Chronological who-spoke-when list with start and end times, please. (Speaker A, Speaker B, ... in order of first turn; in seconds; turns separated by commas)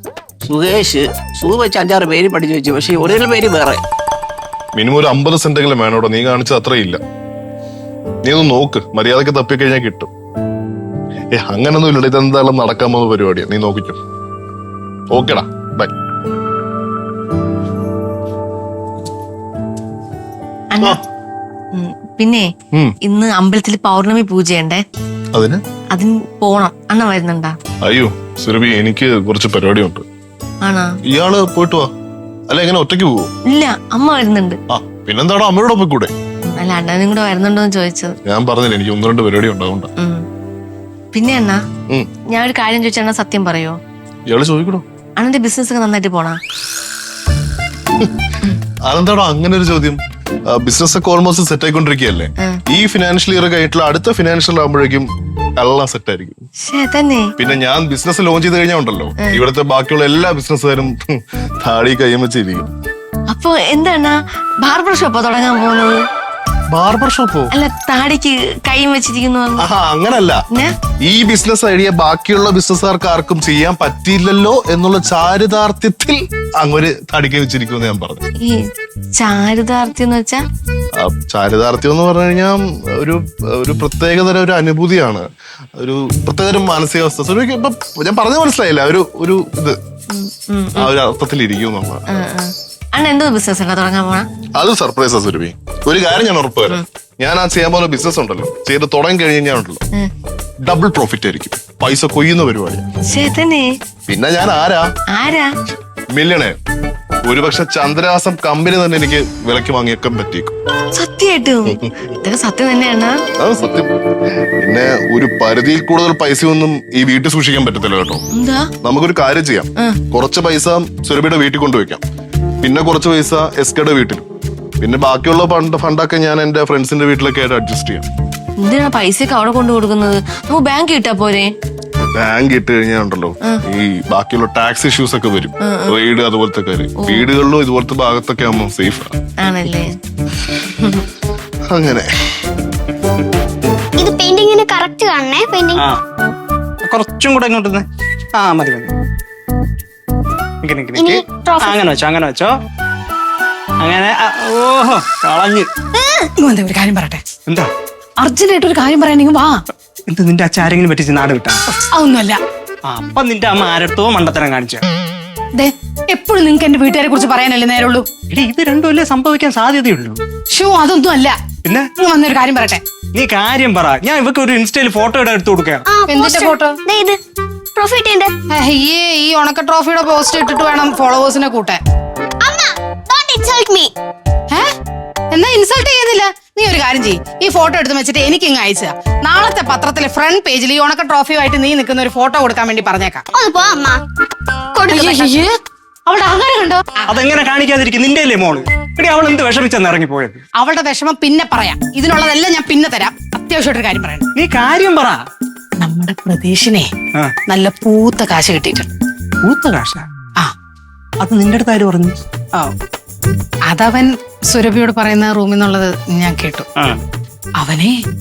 Speaker A: 0.5-3.8, Speaker B: 4.8-7.0, Speaker B: 8.2-10.1, Speaker B: 11.3-14.0, Speaker B: 15.1-15.9, Speaker C: 20.7-21.0, Speaker C: 21.7-22.5, Speaker C: 23.0-24.8, Speaker B: 25.3-25.6, Speaker C: 25.9-27.5, Speaker B: 27.8-30.0, Speaker C: 30.6-30.9, Speaker B: 31.1-31.9, Speaker B: 32.5-33.3, Speaker C: 33.5-34.6, Speaker B: 34.7-36.1, Speaker C: 36.6-38.2, Speaker B: 38.3-39.9, Speaker C: 40.0-40.2, Speaker C: 41.1-41.6, Speaker C: 42.3-43.8, Speaker B: 44.3-44.8, Speaker C: 45.2-46.4, Speaker B: 48.9-56.4, Speaker C: 56.6-57.3, Speaker B: 57.4-62.7, Speaker C: 63.3-66.0, Speaker B: 66.7-67.5, Speaker C: 67.5-69.7, Speaker B: 69.6-70.4, Speaker B: 71.0-78.2, Speaker C: 79.2-80.4, Speaker B: 81.0-85.3, Speaker B: 85.8-89.8, Speaker C: 90.1-90.9, Speaker B: 90.8-92.0, Speaker C: 92.1-94.3, Speaker B: 94.6-99.8, Speaker B: 100.7-102.8, Speaker C: 103.1-103.7, Speaker B: 104.1-104.9, Speaker C: 105.1-105.5, Speaker B: 106.1-106.6, Speaker B: 107.2-110.5, Speaker C: 111.0-113.2, Speaker B: 111.7-111.9, Speaker B: 113.4-118.2, Speaker C: 118.3-118.7, Speaker B: 118.8-122.0, Speaker B: 122.6-124.2, Speaker B: 124.8-128.1, Speaker C: 128.6-131.5, Speaker B: 132.2-139.2, Speaker C: 135.7-135.9, Speaker C: 139.4-140.0, Speaker B: 141.7-142.1, Speaker D: 144.0-145.8, Speaker E: 146.9-147.8, Speaker E: 148.4-148.9, Speaker E: 150.6-152.5, Speaker D: 150.9-151.9, Speaker E: 153.8-155.7, Speaker D: 156.0-156.3, Speaker F: 156.4-157.2, Speaker F: 158.2-159.6, Speaker E: 160.1-161.6, Speaker F: 161.9-162.4, Speaker E: 162.9-164.8, Speaker F: 165.6-168.1, Speaker E: 168.3-170.2, Speaker F: 170.5-171.4, Speaker F: 172.0-172.8, Speaker E: 173.2-175.8, Speaker D: 175.9-177.2, Speaker F: 176.1-176.8, Speaker D: 177.8-178.3, Speaker F: 178.5-181.8, Speaker D: 182.4-183.9, Speaker F: 185.3-193.2, Speaker D: 193.3-194.0, Speaker F: 194.8-195.5, Speaker F: 196.1-197.1, Speaker E: 197.1-200.4, Speaker F: 200.6-204.3, Speaker E: 204.4-205.2, Speaker F: 205.8-206.9, Speaker F: 207.5-208.9, Speaker E: 209.4-210.1, Speaker E: 211.2-212.2, Speaker F: 213.7-216.7, Speaker F: 217.6-218.0